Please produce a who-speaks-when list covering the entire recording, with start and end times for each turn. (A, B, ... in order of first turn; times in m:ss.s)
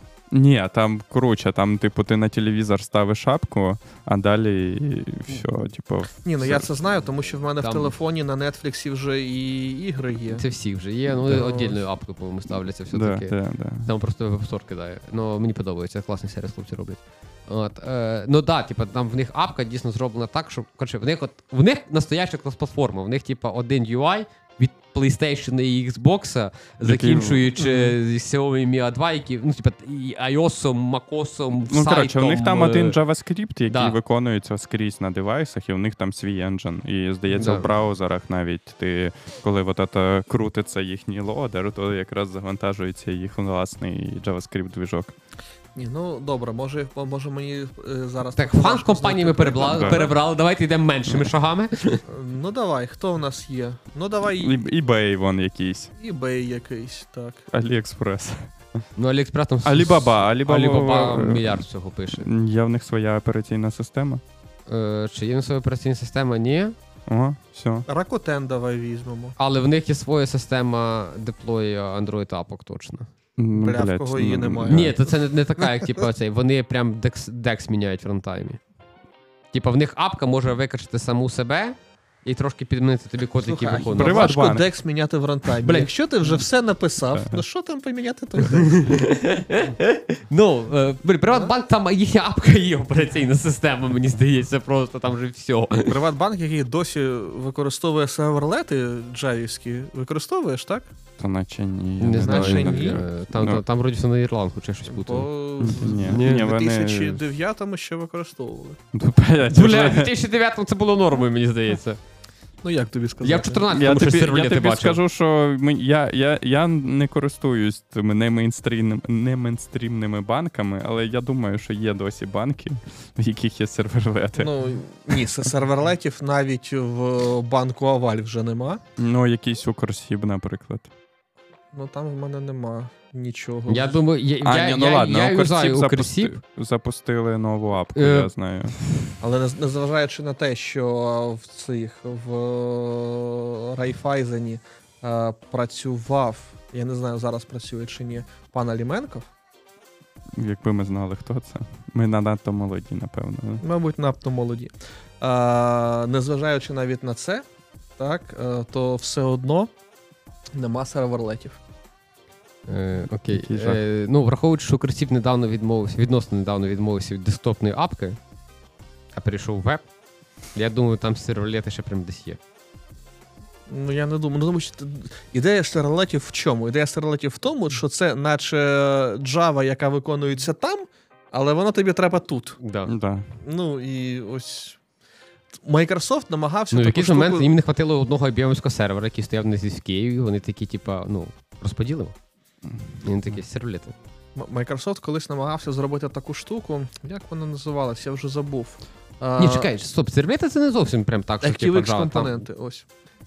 0:00.3-0:06.7 A
0:06.2-0:10.5 B
0:07.6-0:08.0 C
0:10.3-0:33.0 C
0:11.2-0:11.8 B
0:12.9-0:13.9 A
0:26.8-0:27.5 A
0:27.6-0:27.9 B
0:31.7-0:45.2 A
0:33.7-0:34.0 C
0:37.3-0:37.7 C
0:45.8-0:50.1 B
0:48.4-0:52.0 C
0:49.7-0:50.1 A
0:52.1-0:54.7 B
0:54.4-0:55.9 A
0:56.0-0:57.5 B
0:57.5-0:58.8 A
0:59.0-1:02.3 C
0:59.6-1:04.2 A
1:04.7-1:06.8 C
1:07.1-1:07.9 A
1:07.9-1:09.4 B
1:09.4-1:13.1 C
1:13.4-1:15.0 A
1:13.5-1:16.0 B
1:14.7-1:18.6 C
1:19.5-1:24.3 C
1:23.4-1:29.0 B
1:23.9-1:24.7 A
1:25.6-1:25.9 C
1:27.1-1:27.4 A
1:28.4-1:36.0 C
1:35.9-1:40.9 B
1:41.2-1:43.6 A
1:42.0-1:45.3 C
1:42.2-1:43.0 B
1:44.9-1:48.8 B
1:45.6-1:47.2 A
1:45.8-1:46.5 C
1:48.9-1:50.1 A
1:49.5-1:52.0 C
1:52.6-1:53.6 B
1:53.2-1:55.0 C
1:53.7-2:04.5 A
2:04.4-2:08.8 B
2:09.0-2:10.9 A
2:11.7-2:14.0 B
2:13.7-2:16.4 C
2:14.4-2:18.8 A
2:18.0-2:18.3 C
2:19.2-2:29.3 B
2:30.4-2:33.6 A
2:33.6-2:37.5 B
2:38.0-2:39.7 B
2:40.6-2:41.6 B
2:42.7-2:48.2 C
2:43.3-2:43.8 A
2:49.1-2:49.9 C
2:50.5-2:52.4 C
2:53.7-3:02.6 B
3:02.6-3:02.9 C
3:02.9-3:03.3 A
3:03.4-3:04.8 B
3:05.6-3:07.5 B
3:06.7-3:12.2 C
3:12.6-3:12.9 A
3:13.0-3:14.0 C
3:14.4-3:19.7 B
3:19.4-3:22.5 C
3:21.4-3:22.9 B